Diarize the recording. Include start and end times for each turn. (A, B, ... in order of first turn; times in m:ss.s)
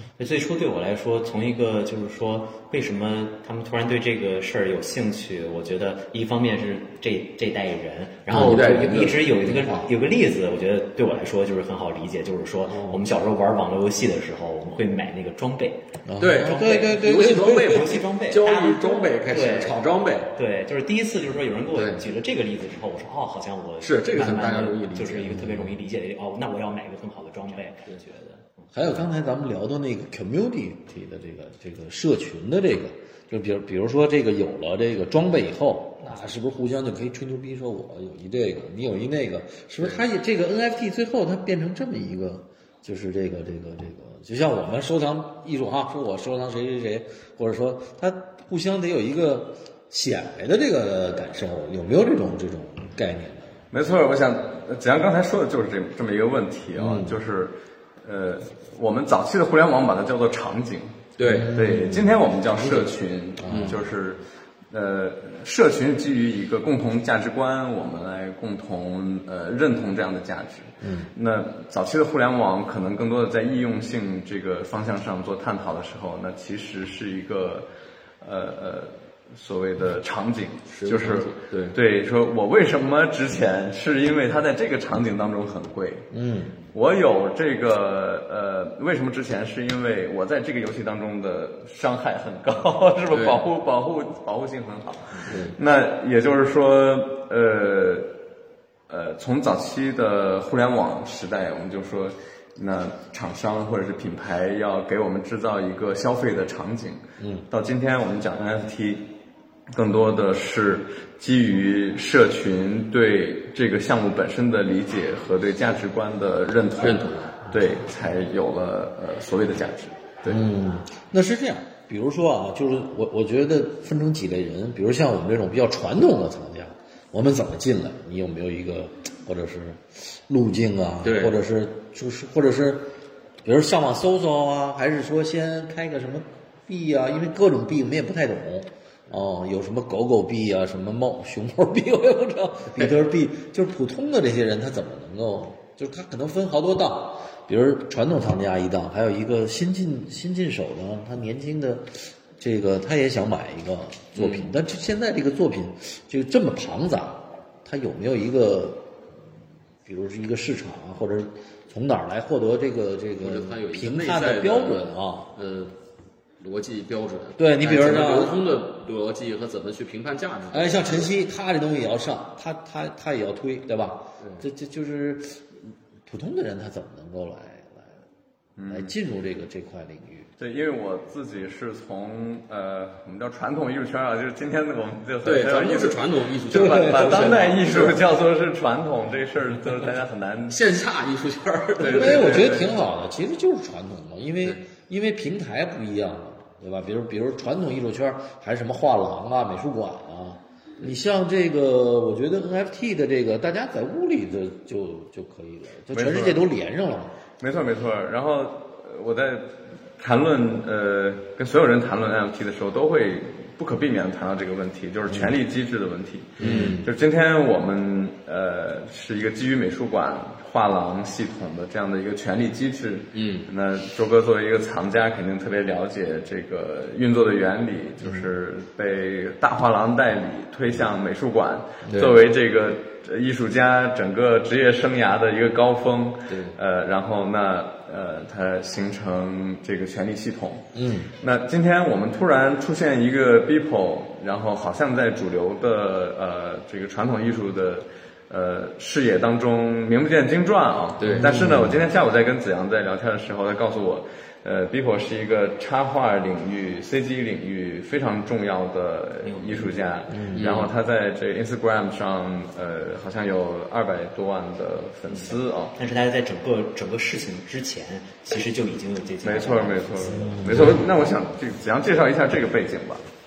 0:00.2-0:19.8 A
0:08.3-0:09.9 B
0:08.3-0:08.6 C
0:12.7-0:13.0 B
0:16.0-0:18.0 C
0:16.2-0:20.3 B
0:20.3-0:28.6 A
0:21.8-0:22.0 B
0:23.8-0:25.4 B
0:25.4-0:25.7 C
0:28.7-0:53.6 C
0:53.7-1:17.7 D
0:56.8-0:57.2 C
1:01.2-1:01.5 B
1:01.2-1:02.8 C
1:03.4-1:03.9 C
1:03.5-1:03.8 B
1:10.8-1:11.1 C
1:18.2-1:26.1 D
1:20.7-1:21.8 B
1:26.1-1:26.5 C
1:26.7-1:38.1 D
1:33.1-1:33.4 B
1:35.2-1:35.6 B
1:38.9-1:49.0 D
1:47.2-1:47.4 C
1:49.7-2:00.4 D
1:56.8-1:57.4 B
2:00.2-2:12.9 C
2:11.0-2:11.4 B
2:13.4-2:38.9 C
2:34.1-2:34.5 B
2:39.8-2:45.3 C
2:43.2-2:45.7 B
2:46.4-2:51.1 B
2:47.4-2:48.4 C
2:50.5-2:58.0 C
2:54.2-2:54.4 B
2:58.6-2:58.9 D
2:58.7-3:00.3 C
3:00.4-3:10.6 D
3:05.2-3:08.0 B
3:06.5-3:07.2 C
3:10.5-3:12.7 B
3:11.8-3:12.7 D
3:11.8-3:27.1 C
3:25.9-3:26.4 D
3:27.4-4:00.7 D
3:36.4-3:36.8 B
3:36.4-3:36.8 C
3:43.1-3:43.5 B
3:51.9-3:52.2 B
3:56.3-3:56.6 B
4:00.7-4:01.1 C
4:01.2-4:25.7 D
4:11.0-4:11.4 B
4:11.1-4:11.8 C
4:19.2-4:19.7 A
4:20.1-4:20.6 C
4:20.3-4:20.7 B
4:25.7-4:30.5 A
4:29.2-4:33.0 D
4:30.2-4:30.8 C